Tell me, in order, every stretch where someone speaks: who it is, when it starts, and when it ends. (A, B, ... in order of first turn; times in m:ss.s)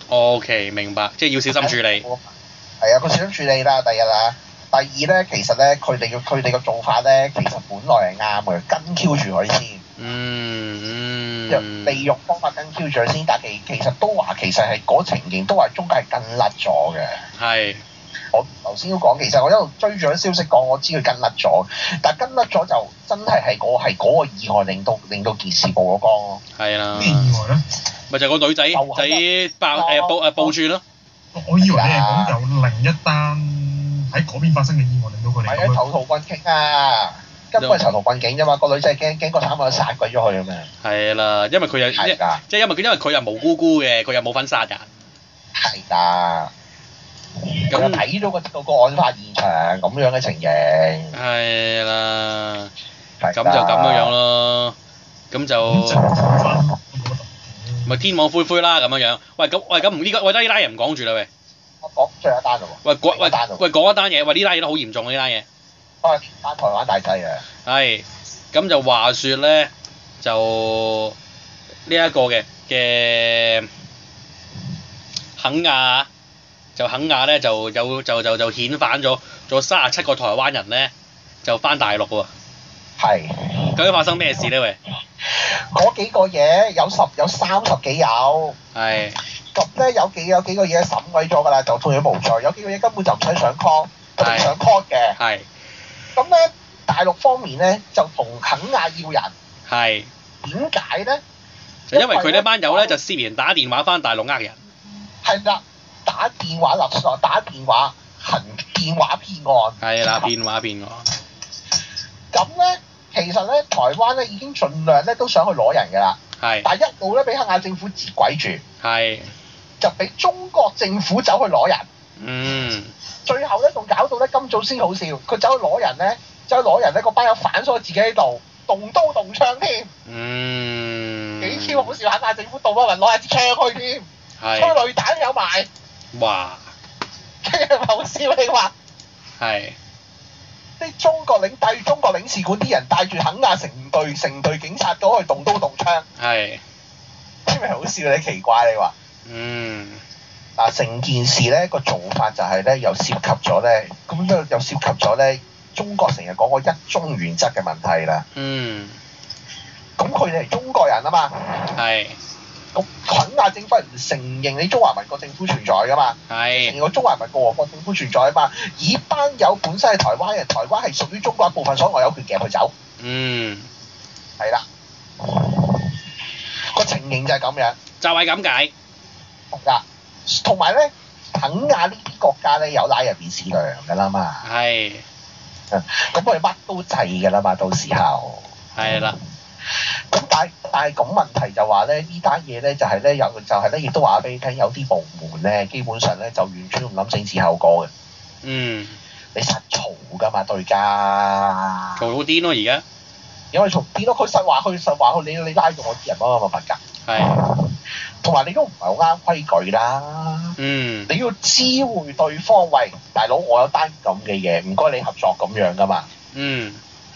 0:00.1-0:02.0 A
0:01.6-0:09.8 B
0:10.0-0:12.1 A
0:11.5-0:17.2 B
0:17.4-0:17.8 A
0:18.3-0:26.4 B
0:26.6-0:27.4 A
0:26.9-0:27.6 C
0:28.1-0:30.8 A
0:28.7-0:30.6 B
0:31.3-0:35.8 C
0:31.6-0:32.4 B
0:35.5-0:40.7 B
0:37.6-0:37.8 A
0:40.8-0:44.9 A
0:42.0-0:42.4 B
0:45.6-0:46.5 B
0:47.4-0:51.2 B
0:47.7-0:48.0 A
0:51.1-0:52.7 A
0:53.2-0:54.1 B
0:53.3-0:54.8 A
0:55.3-0:56.1 A
0:55.7-0:58.0 C
0:57.9-1:01.3 A
1:01.8-1:03.6 B
1:02.8-1:05.5 A
1:06.0-1:07.4 B
1:07.6-1:11.2 A
1:11.9-1:13.7 A
1:15.4-1:16.1 A
1:16.8-1:20.9 A
1:21.4-1:22.3 A
1:23.0-1:23.9 B
1:23.8-1:24.8 A
1:25.2-1:28.6 B
1:28.8-1:29.2 A
1:29.5-1:35.2 B
1:34.2-1:34.5 A
1:35.2-1:35.5 A
1:36.2-1:39.3 B
1:39.7-1:40.1 A
1:40.4-1:41.2 B
1:41.9-1:44.6 A
1:41.9-1:43.0 B
1:45.2-1:49.8 B
1:49.8-1:51.1 A
1:52.3-1:58.6 B
1:56.4-1:56.7 A
1:58.8-1:59.3 A
1:59.8-2:01.9 B
2:02.2-2:02.9 A
2:03.2-2:09.9 B
2:10.1-2:12.0 A
2:11.4-2:15.7 B
2:14.4-2:14.8 A
2:16.1-2:16.7 A
2:17.4-2:18.7 B
2:19.4-2:19.8 A
2:20.8-2:26.0 B
2:26.2-2:26.6 A
2:27.5-2:28.9 B
2:29.3-2:30.0 A
2:30.6-2:38.2 B
2:38.4-2:39.0 A
2:40.0-2:41.7 B
2:41.8-2:42.2 A
2:42.7-2:52.7 B
2:46.3-2:46.8 A
2:53.0-2:53.7 A
2:54.4-2:54.6 B
2:55.2-2:56.0 B
2:56.7-2:57.8 B
2:58.0-2:58.7 A
2:59.5-3:04.4 B
3:04.4-3:05.0 A
3:05.7-3:09.0 B
3:08.8-3:09.2 A
3:09.7-3:17.9 B
3:18.4-3:19.0 A
3:19.4-3:22.0 B
3:22.0-3:22.8 A
3:23.5-3:30.6 B
3:27.0-3:27.4 A
3:30.6-3:31.1 A
3:31.1-3:36.1 B
3:36.3-3:36.8 A